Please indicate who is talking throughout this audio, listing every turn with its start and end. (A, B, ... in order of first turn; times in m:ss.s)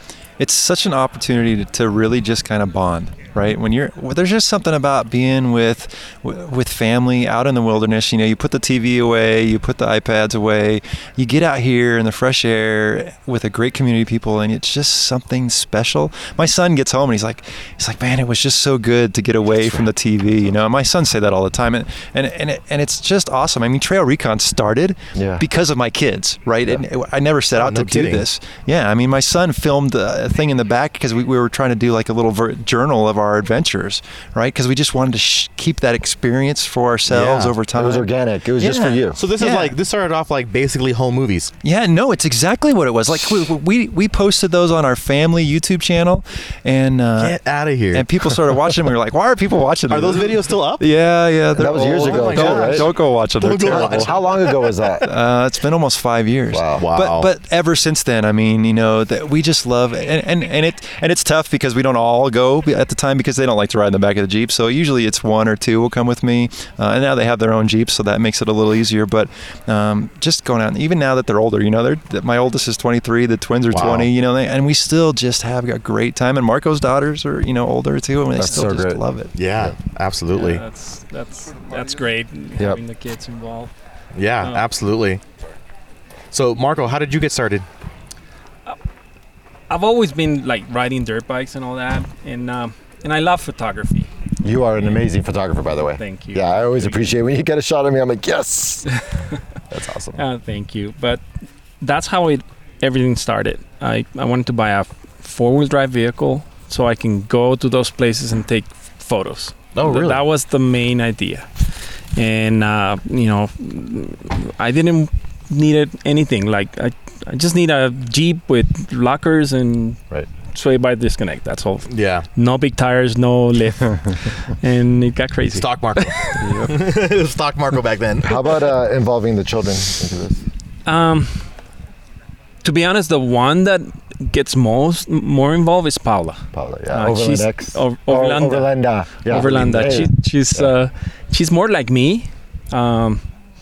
0:00.4-0:38.1 A
0:25.2-0:25.4 B
0:27.6-0:28.2 C
0:37.1-0:37.5 C
0:37.7-0:39.2 B
0:38.6-0:41.5 C
0:39.4-0:39.8 A
0:41.6-0:47.4 A
0:47.2-0:48.7 C
0:47.9-0:54.2 A
0:49.9-0:50.9 C
0:51.6-0:52.9 B
0:51.6-0:54.6 C
0:53.6-0:55.1 B
0:55.0-1:19.3 A
0:56.5-0:56.8 B
0:56.8-0:57.3 C
1:13.7-1:14.1 C
1:18.4-1:19.0 B
1:19.4-1:20.6 C
1:20.4-1:23.7 D
1:24.2-1:25.2 C
1:26.3-1:27.6 C
1:29.7-1:34.1 D
1:34.4-1:39.0 B
1:36.0-1:37.0 D
1:39.7-1:40.2 B
1:40.2-1:41.2 D
1:41.8-2:06.5 D
1:49.8-1:50.2 C
2:01.9-2:02.3 C
2:05.6-2:08.6 C
2:06.4-2:06.7 A
2:08.2-2:10.4 B
2:10.9-2:11.5 D
2:12.6-2:18.7 D
2:16.5-2:20.6 B
2:19.3-2:23.2 D